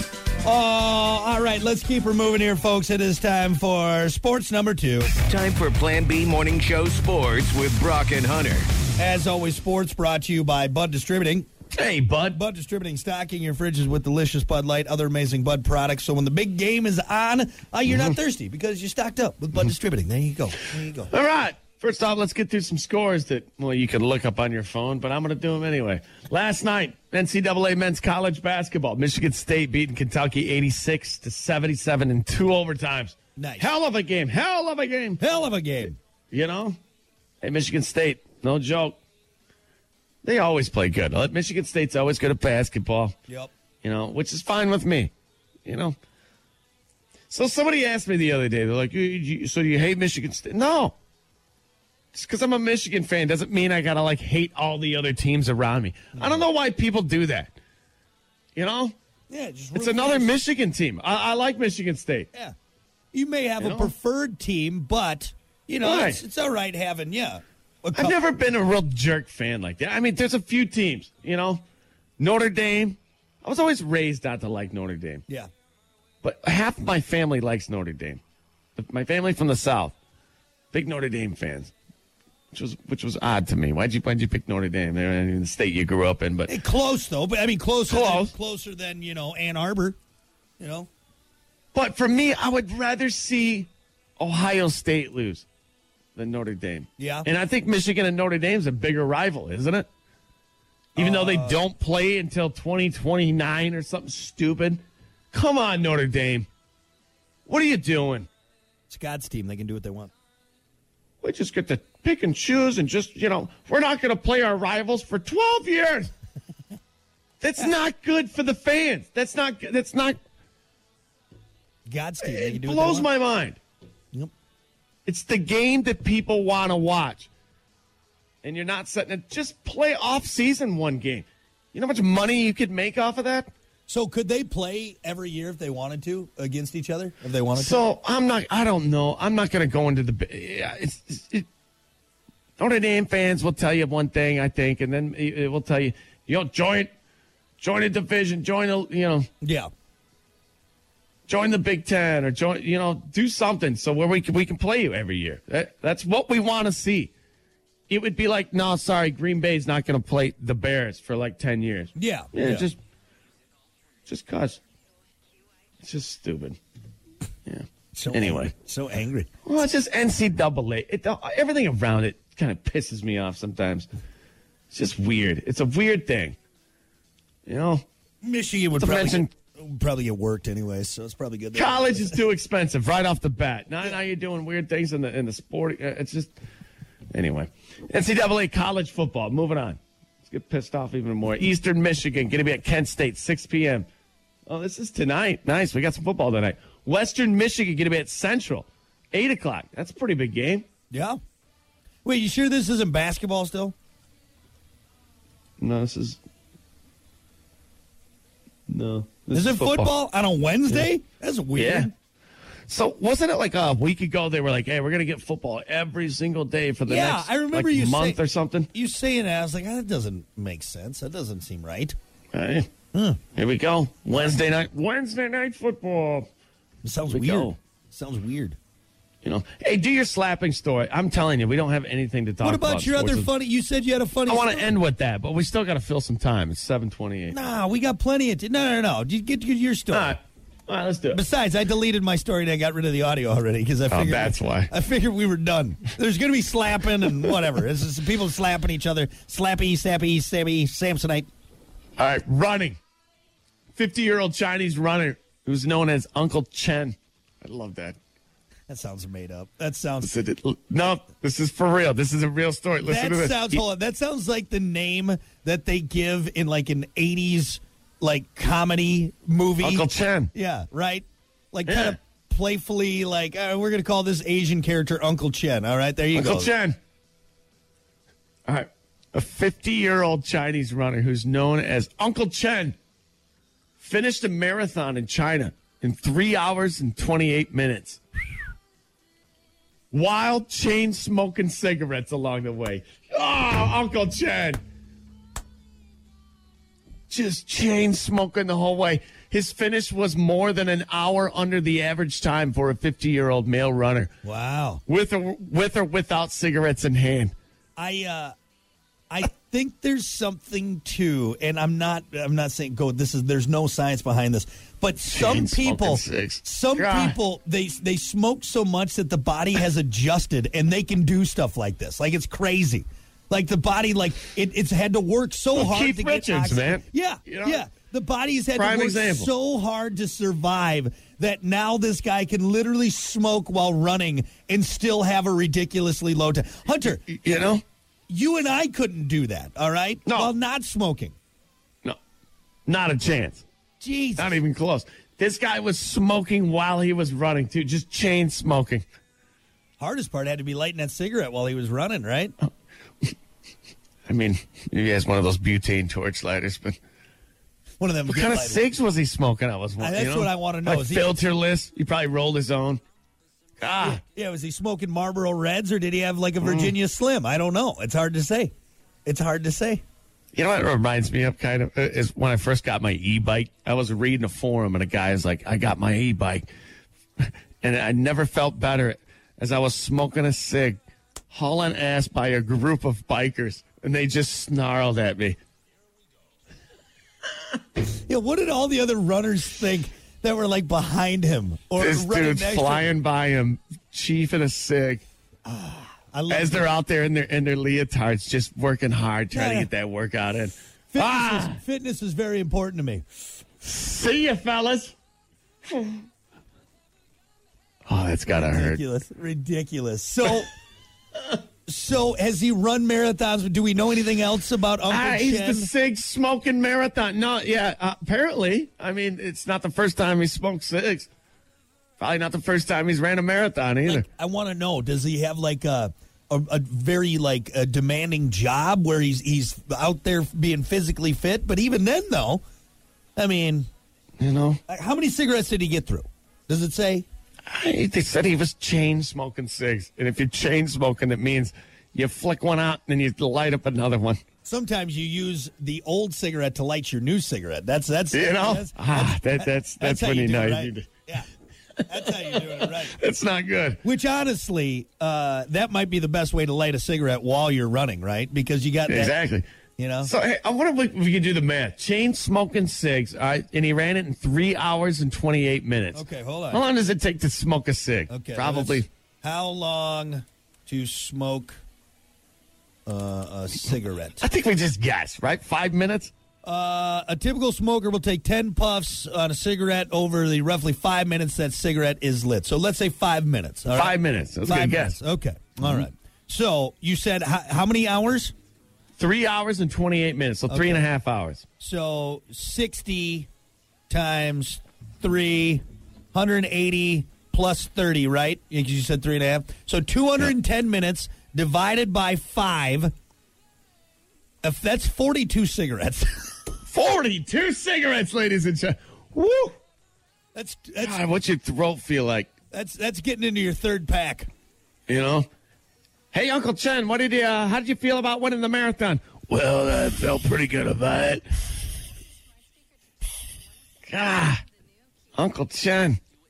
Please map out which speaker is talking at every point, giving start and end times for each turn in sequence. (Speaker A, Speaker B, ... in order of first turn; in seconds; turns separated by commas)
Speaker A: 0.4-5.1, Speaker B: 5.2-8.7, Speaker A: 9.0-11.5, Speaker C: 11.7-12.4, Speaker A: 12.3-21.1, Speaker C: 21.1-35.2, Speaker A: 33.4-33.7, Speaker A: 35.2-36.0, Speaker C: 36.3-36.8, Speaker C: 37.4-39.0, Speaker C: 40.2-43.2, Speaker C: 43.8-45.1, Speaker C: 45.6-46.0, Speaker C: 47.3-51.0, Speaker C: 52.1-57.5, Speaker A: 56.1-56.4, Speaker C: 58.5-58.9, Speaker A: 59.3-60.3, Speaker C: 59.7-62.3, Speaker A: 63.1-68.2, Speaker C: 63.6-63.9, Speaker C: 65.8-66.2, Speaker C: 67.9-71.6, Speaker C: 72.2-75.2, Speaker C: 76.2-78.2, Speaker C: 78.8-79.9, Speaker C: 80.7-81.7, Speaker C: 82.5-86.5, Speaker A: 86.5-90.0, Speaker C: 87.9-88.3, Speaker A: 90.6-90.9, Speaker C: 91.7-95.5, Speaker C: 96.2-99.9, Speaker A: 97.0-97.3, Speaker A: 101.0-101.6, Speaker C: 101.0-106.5, Speaker C: 107.5-108.3, Speaker A: 108.9-110.1, Speaker C: 111.2-116.1, Speaker C: 117.4-120.2, Speaker A: 121.9-123.1, Speaker C: 122.2-123.6, Speaker C: 125.0-127.3, Speaker C: 128.4-133.5, Speaker A: 133.9-137.8, Speaker C: 137.5-141.5, Speaker C: 142.6-146.9, Speaker C: 147.6-149.3, Speaker A: 149.4-149.7, Speaker C: 151.3-157.1, Speaker C: 157.9-162.8, Speaker A: 161.9-162.7, Speaker C: 164.1-164.6, Speaker C: 165.8-166.6, Speaker C: 167.4-168.5, Speaker A: 167.9-169.3, Speaker C: 169.4-173.9, Speaker C: 174.7-176.4, Speaker C: 177.4-177.8, Speaker A: 178.2-182.2, Speaker C: 178.8-179.3, Speaker C: 181.5-186.3, Speaker C: 187.1-193.9, Speaker C: 194.5-200.7, Speaker A: 200.9-201.2, Speaker A: 202.0-203.7, Speaker C: 205.6-206.2, Speaker C: 208.7-209.9, Speaker A: 209.3-211.9, Speaker C: 211.5-211.9, Speaker C: 212.7-218.7, Speaker A: 216.9-218.2, Speaker A: 218.7-221.9, Speaker C: 222.3-222.7, Speaker A: 222.9-223.2, Speaker C: 223.3-226.3, Speaker A: 226.8-228.6, Speaker C: 227.1-227.6, Speaker C: 229.2-233.3, Speaker A: 232.4-234.7, Speaker C: 234.3-237.4, Speaker A: 237.3-240.2, Speaker C: 239.9-241.2, Speaker A: 241.1-251.3, Speaker C: 243.9-244.7, Speaker C: 252.0-252.8, Speaker C: 253.7-258.0, Speaker A: 258.7-260.1, Speaker C: 260.0-263.6, Speaker A: 262.8-276.5, Speaker C: 269.6-270.3, Speaker C: 271.7-272.0, Speaker C: 276.1-276.8, Speaker C: 278.4-282.8, Speaker C: 283.8-288.0, Speaker C: 289.9-294.6, Speaker C: 297.1-304.1, Speaker A: 304.2-304.8, Speaker C: 304.9-307.3, Speaker A: 307.8-308.3, Speaker A: 309.1-337.1, Speaker C: 315.1-317.2, Speaker C: 325.5-327.6, Speaker C: 328.6-329.3, Speaker C: 337.0-337.6, Speaker A: 338.1-341.1, Speaker C: 340.1-340.3, Speaker C: 342.6-343.4, Speaker A: 343.8-344.4, Speaker C: 344.2-348.8, Speaker A: 349.8-352.3, Speaker C: 354.1-356.8, Speaker A: 357.8-358.6, Speaker C: 358.1-362.8, Speaker A: 359.8-361.1, Speaker C: 363.6-364.0, Speaker A: 363.8-368.5, Speaker C: 366.4-366.7, Speaker A: 369.1-369.8, Speaker C: 370.3-376.5, Speaker C: 377.2-380.8, Speaker C: 381.3-385.4, Speaker A: 388.1-392.9, Speaker C: 391.8-395.0, Speaker A: 395.4-396.7, Speaker C: 396.3-401.6, Speaker A: 399.3-399.7, Speaker A: 400.9-403.0, Speaker C: 403.6-404.9, Speaker C: 405.6-406.1, Speaker C: 407.9-408.8, Speaker A: 408.4-410.5, Speaker A: 411.6-415.7, Speaker C: 414.9-421.1, Speaker C: 422.0-424.1, Speaker A: 423.9-432.4, Speaker A: 433.1-433.7, Speaker C: 434.2-434.6, Speaker A: 434.7-437.1, Speaker C: 437.5-444.2, Speaker A: 444.4-451.3, Speaker C: 448.1-450.9, Speaker A: 451.8-453.0, Speaker C: 451.9-453.8, Speaker A: 453.8-459.1, Speaker C: 458.9-459.4, Speaker A: 459.8-460.1, Speaker C: 460.0-468.9, Speaker A: 465.9-466.6, Speaker A: 468.1-471.6, Speaker A: 472.9-474.2, Speaker C: 474.2-476.1, Speaker A: 476.4-488.3, Speaker C: 483.7-485.0, Speaker C: 489.0-491.4, Speaker A: 490.5-490.9, Speaker A: 491.6-493.3, Speaker A: 493.9-495.6, Speaker A: 496.1-502.9, Speaker A: 504.4-506.4, Speaker C: 506.7-509.6, Speaker A: 510.3-511.0, Speaker C: 510.8-512.3, Speaker A: 512.5-514.3, Speaker C: 514.9-515.3, Speaker C: 516.1-521.6, Speaker C: 523.8-524.4, Speaker C: 525.1-526.0